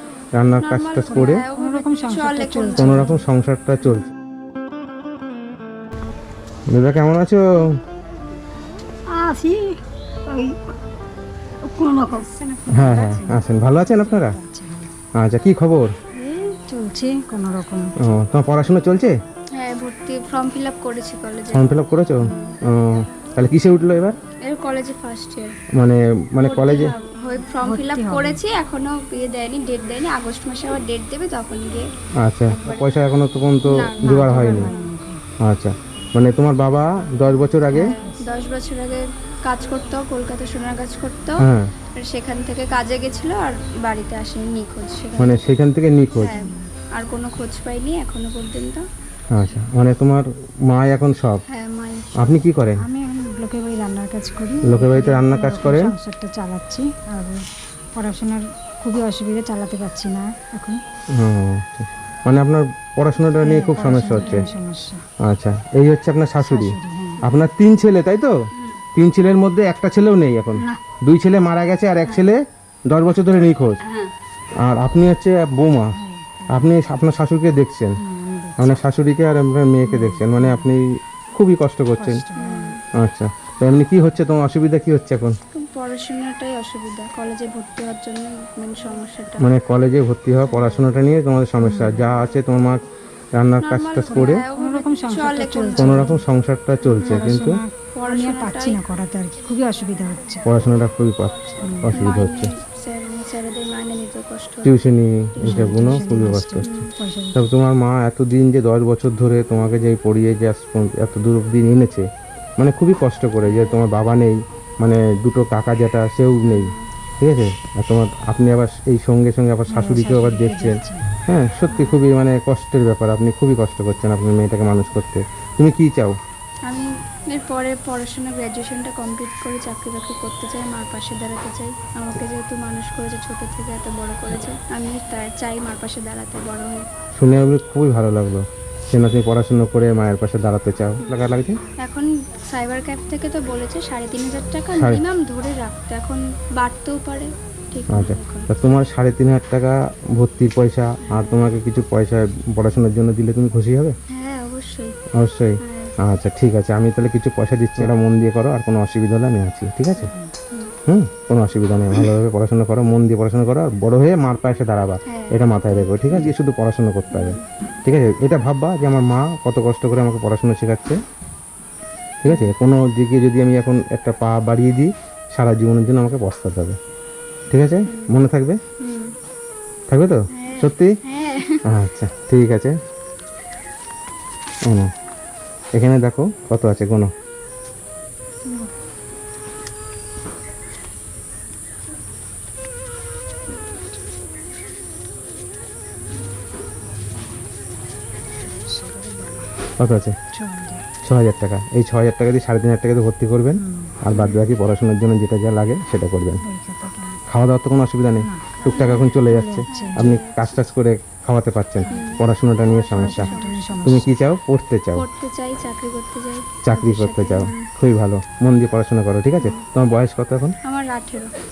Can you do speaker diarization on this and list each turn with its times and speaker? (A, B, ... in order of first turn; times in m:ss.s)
0:00.4-0:01.4 A
0:00.6-0:03.2 B
0:01.1-0:03.3 C
0:02.8-0:04.1 A
0:06.7-0:07.8 A
0:09.1-0:09.7 C
0:10.3-0:10.6 C
0:11.7-0:14.9 C
0:12.7-0:14.4 A
0:15.2-0:15.9 A
0:16.2-0:17.9 C
0:18.0-0:19.2 A
0:19.5-0:22.6 B
0:21.5-0:24.2 A
0:24.4-0:25.5 B
0:25.8-0:26.9 A
0:26.4-0:31.9 B
0:27.6-0:28.4 C
0:32.2-0:34.7 A
0:32.5-0:32.9 B
0:33.7-0:34.9 B
0:34.0-0:35.2 C
0:35.4-0:37.9 A
0:37.7-0:38.2 C
0:37.7-0:41.4 B
0:41.4-0:41.7 A
0:42.0-0:45.5 B
0:45.2-0:46.4 A
0:46.2-0:48.8 B
0:46.2-0:46.7 C
0:49.3-0:51.4 A
0:51.5-0:52.4 B
0:52.2-0:52.8 A
0:52.8-0:57.4 C
0:54.6-0:55.9 A
0:58.0-1:00.8 C
1:01.1-1:04.5 A
1:03.4-1:05.0 C
1:04.1-1:04.6 B
1:05.2-1:08.4 A
1:06.4-1:07.2 C
1:09.0-1:13.8 A
1:14.6-1:15.9 A
1:16.0-1:16.7 C
1:16.5-1:18.0 A
1:18.0-1:18.7 C
1:18.6-1:22.2 A
1:19.8-1:20.7 C
1:22.0-1:22.8 C
1:22.4-1:22.8 B
1:22.9-1:25.4 A
1:25.5-1:29.5 B
1:29.4-1:32.8 A
1:31.6-1:32.1 C
1:33.4-1:34.4 A
1:33.6-1:36.2 B
1:34.1-1:36.2 C
1:35.8-1:37.6 A
1:36.9-1:40.5 C
1:37.0-1:37.4 B
1:38.0-1:38.8 B
1:40.4-1:42.5 A
1:41.6-1:42.1 C
1:41.9-1:44.8 B
1:44.6-1:46.8 A
1:45.4-1:46.9 B
1:45.4-1:47.5 C
1:47.4-1:52.1 A
1:52.6-2:06.2 A
1:53.4-1:53.8 B
1:56.4-1:56.8 B
1:59.7-2:01.1 C
2:01.7-2:02.0 B
2:06.7-2:16.9 B
2:17.2-2:21.6 A
2:21.8-2:28.5 B
2:24.7-2:25.0 A
2:27.9-2:34.0 A
2:31.0-2:31.5 B
2:34.1-2:35.0 B
2:35.2-2:40.1 A
2:35.6-2:35.9 B
2:40.9-2:51.0 A
2:45.1-2:46.2 B
2:47.1-2:47.5 B
2:52.2-2:56.8 A
2:52.3-2:52.5 B
2:57.5-2:58.6 A
2:57.9-2:58.1 B
2:58.8-2:59.1 B
2:59.9-3:00.9 A
3:00.3-3:01.6 B
3:01.7-3:02.8 A
3:05.8-3:07.1 A
3:18.6-3:19.5 C
3:19.8-3:20.2 A
3:20.3-3:20.8 C
3:21.0-3:26.4 A
3:23.6-3:24.0 C
3:24.1-3:24.4 B
3:26.4-3:27.2 C
3:27.3-3:35.0 A
3:28.2-3:30.1 C
3:28.6-3:29.2 B
3:29.7-3:30.6 B
3:31.9-3:32.2 C
3:31.9-3:33.8 B
3:32.9-3:34.1 C
3:35.0-3:37.7 B
3:36.6-3:40.6 A
3:39.4-3:39.6 B
3:40.6-3:41.3 B